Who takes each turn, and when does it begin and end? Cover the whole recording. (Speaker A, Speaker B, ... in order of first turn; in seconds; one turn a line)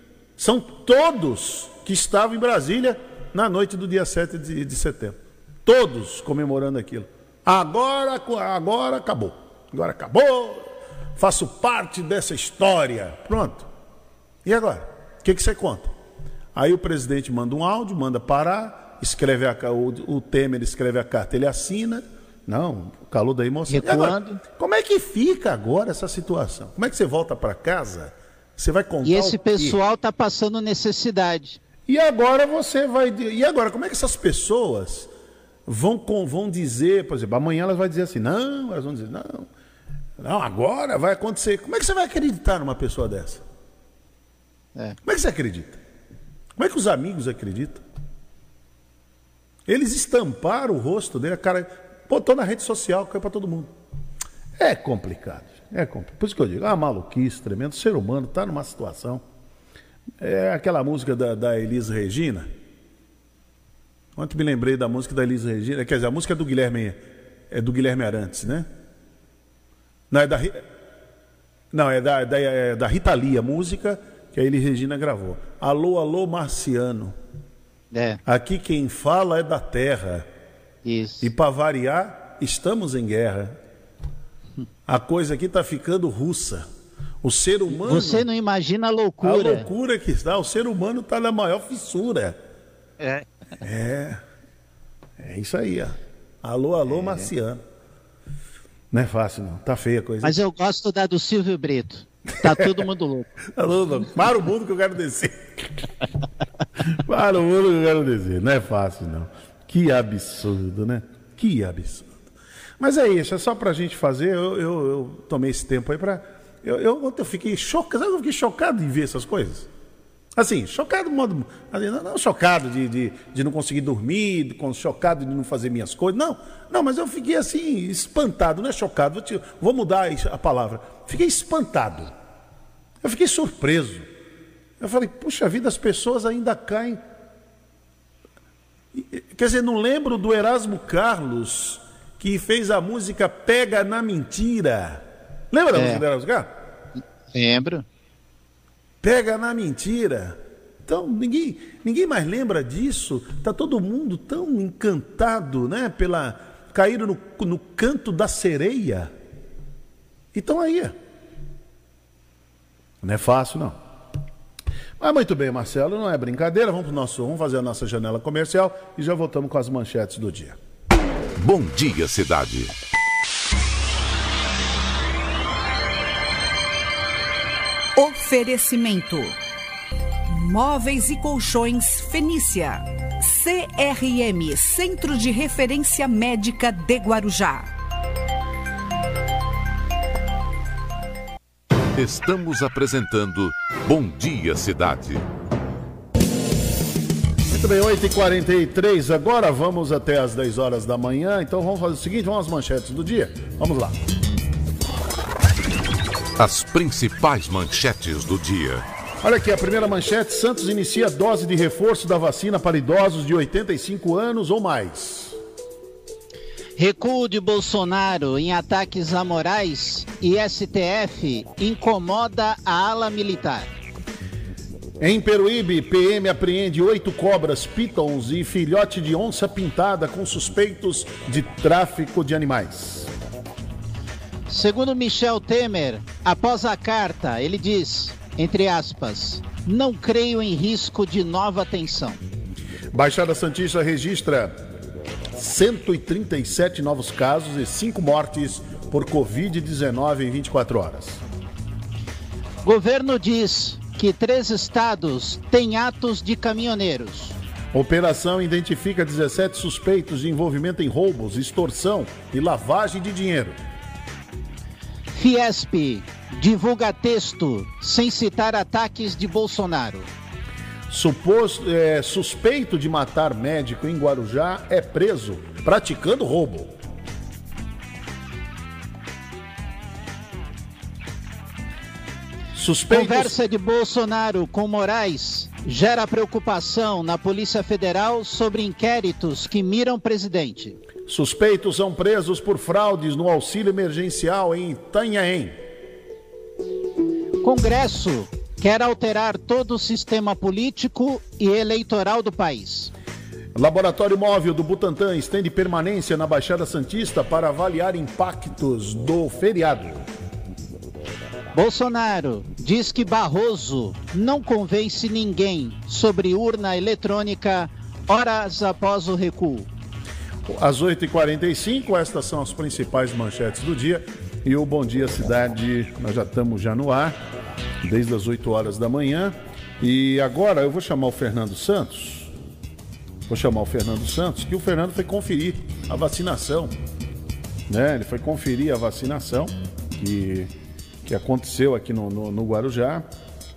Speaker A: 0.4-13.7
Speaker A: 14.4-15.9
Speaker A: 16.5-29.8
Speaker B: 23.7-24.4
Speaker B: 29.0-31.6
Speaker A: 31.9-35.1
Speaker A: 35.6-39.5
Speaker A: 40.2-43.4
Speaker A: 45.0-45.8
Speaker A: 46.5-47.8
Speaker A: 49.6-53.7
Speaker A: 54.6-59.2
Speaker A: 60.2-62.5
Speaker A: 64.2-67.0
Speaker A: 67.5-68.7
Speaker A: 70.1-70.6
Speaker A: 71.7-77.1
Speaker B: 77.9-78.2
Speaker A: 78.2-80.3
Speaker B: 80.8-81.3
Speaker A: 81.2-83.6
Speaker A: 84.9-86.7
Speaker A: 87.2-88.2
Speaker B: 87.7-89.7
Speaker A: 89.2-92.4
Speaker B: 93.0-93.3
Speaker A: 93.6-94.2
Speaker A: 95.2-97.6
Speaker A: 98.9-100.4
Speaker B: 100.2-103.3
Speaker A: 102.5-102.8
Speaker A: 103.5-105.8
Speaker A: 106.9-112.1
Speaker A: 112.8-119.7
Speaker A: 120.3-132.1
Speaker A: 133.0-134.1
Speaker A: 134.8-137.0
Speaker A: 138.9-146.5
Speaker B: 145.7-146.0
Speaker B: 147.3-147.8
Speaker A: 149.0-159.1
Speaker A: 160.3-160.9
Speaker A: 163.0-163.8
Speaker A: 165.0-170.6
Speaker C: 171.4-172.7
Speaker D: 177.9-179.3
Speaker D: 180.3-187.7
Speaker C: 191.9-195.2
Speaker A: 197.5-203.9
Speaker C: 206.4-208.8
Speaker A: 209.2-215.4
Speaker B: 216.8-223.7
Speaker A: 225.0-233.1
Speaker B: 234.5-242.2
Speaker A: 242.9-244.6
Speaker A: 245.3-251.2
Speaker B: 252.6-257.3
Speaker A: 257.7-263.6
Speaker B: 265.1-270.1
Speaker A: 270.9-276.7
Speaker A: 282.5-283.3
Speaker B: 282.9-290.8
Speaker A: 291.1-295.6
Speaker B: 297.4-302.9
Speaker A: 303.5-310.1
Speaker B: 311.5-319.7
Speaker A: 320.5-327.1
Speaker A: 327.8-332.3
Speaker A: 333.3-336.7
Speaker A: 337.7-340.5
Speaker A: 341.0-343.1